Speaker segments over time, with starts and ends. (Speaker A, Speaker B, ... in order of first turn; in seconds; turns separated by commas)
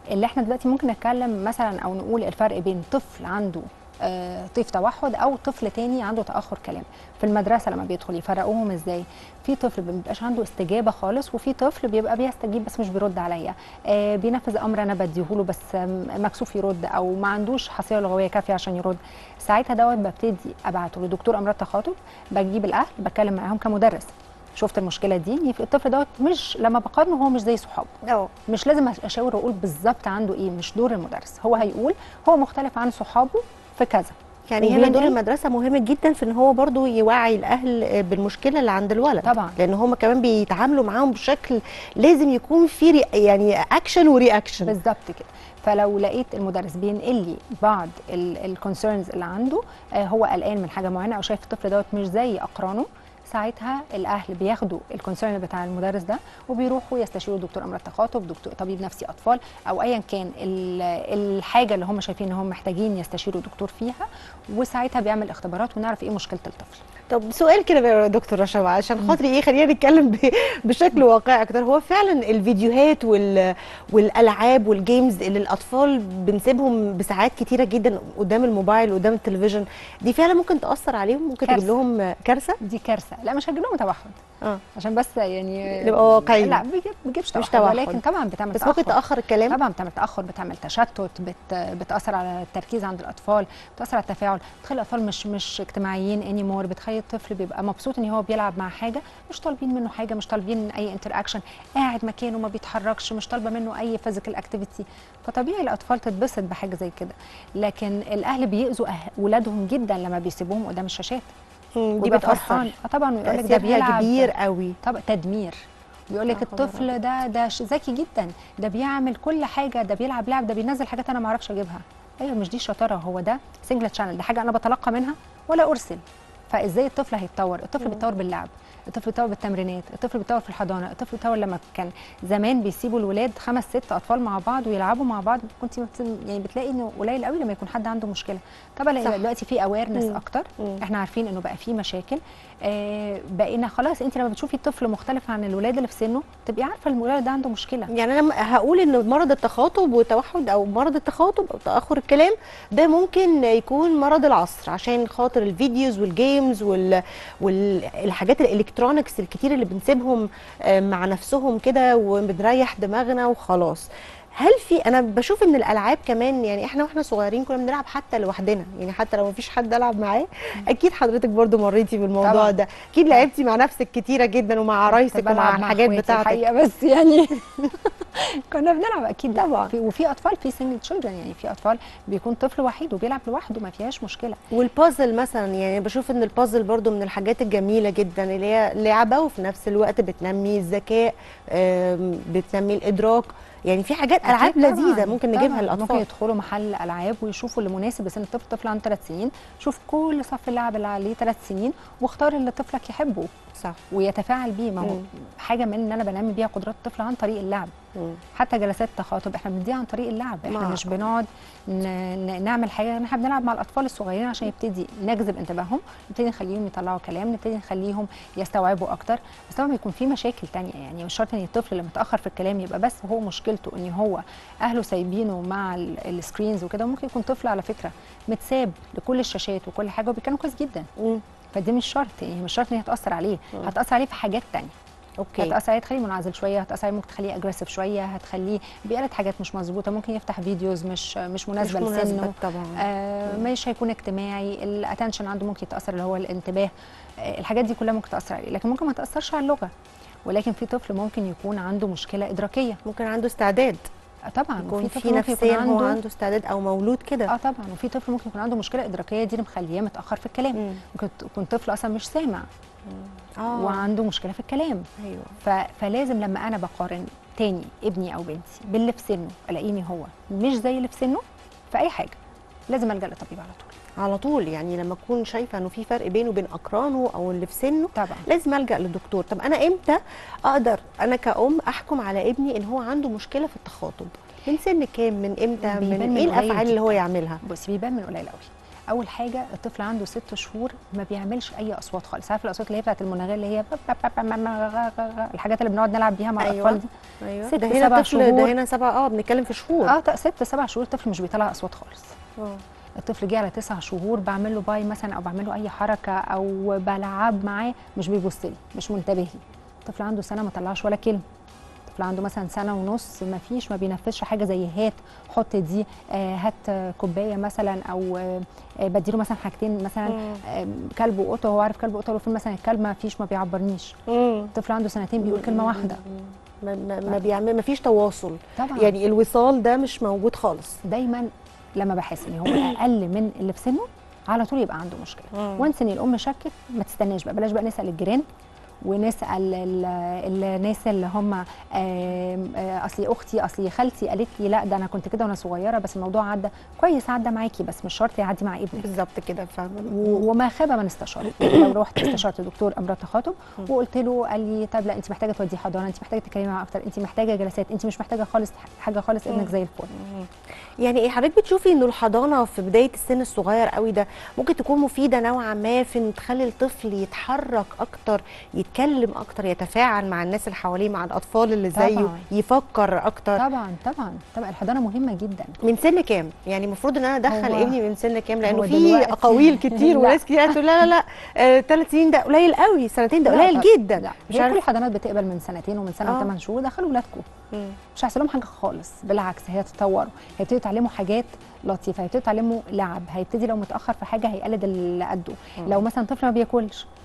Speaker A: 0.1-27.9, Speaker B: 28.0-28.3, Speaker A: 28.5-35.1, Speaker B: 34.5-44.7, Speaker A: 39.2-39.5, Speaker A: 44.6-66.8, Speaker B: 67.1-82.6, Speaker A: 81.5-81.7, Speaker A: 82.6-84.2, Speaker A: 84.8-89.0, Speaker B: 85.7-86.6, Speaker B: 87.3-88.0, Speaker B: 88.5-89.5, Speaker A: 89.5-111.3, Speaker B: 111.8-112.7, Speaker A: 112.0-114.3, Speaker B: 113.2-114.8, Speaker A: 114.8-147.9, Speaker B: 116.3-116.9, Speaker B: 139.9-140.8, Speaker B: 147.9-156.9, Speaker B: 157.4-176.4, Speaker A: 172.2-172.5, Speaker A: 174.9-184.4, Speaker B: 179.3-179.7, Speaker B: 184.5-196.0, Speaker A: 194.2-203.3, Speaker A: 203.9-207.7, Speaker A: 208.3-230.9, Speaker B: 210.5-211.0, Speaker A: 231.5-234.7, Speaker B: 235.2-235.5, Speaker A: 235.4-246.7, Speaker B: 241.6-243.4, Speaker A: 247.2-249.7, Speaker A: 250.2-252.8, Speaker B: 252.9-253.9, Speaker A: 254.3-256.0, Speaker B: 254.6-257.3, Speaker A: 257.3-262.5, Speaker B: 260.5-260.8, Speaker B: 262.9-263.8, Speaker A: 263.5-264.9, Speaker B: 265.0-265.4, Speaker A: 265.4-272.2, Speaker A: 272.7-273.7, Speaker B: 274.0-287.4, Speaker A: 277.9-278.3, Speaker A: 285.6-296.9, Speaker B: 296.4-299.9, Speaker A: 297.5-298.5, Speaker A: 299.8-302.1, Speaker A: 303.0-311.2, Speaker A: 311.9-323.9, Speaker B: 320.1-320.4, Speaker B: 324.1-324.5, Speaker A: 324.5-326.0, Speaker B: 325.2-330.8, Speaker A: 328.6-328.9, Speaker A: 330.9-338.2, Speaker B: 335.3-335.7, Speaker A: 338.8-348.9, Speaker B: 348.8-350.2, Speaker A: 349.9-359.9, Speaker B: 359.3-360.3, Speaker B: 360.8-373.4, Speaker A: 371.7-372.3, Speaker A: 373.4-375.5, Speaker B: 375.6-384.6, Speaker A: 377.3-377.8, Speaker A: 378.4-380.5, Speaker A: 383.3-387.2, Speaker B: 386.0-386.3, Speaker A: 387.9-396.9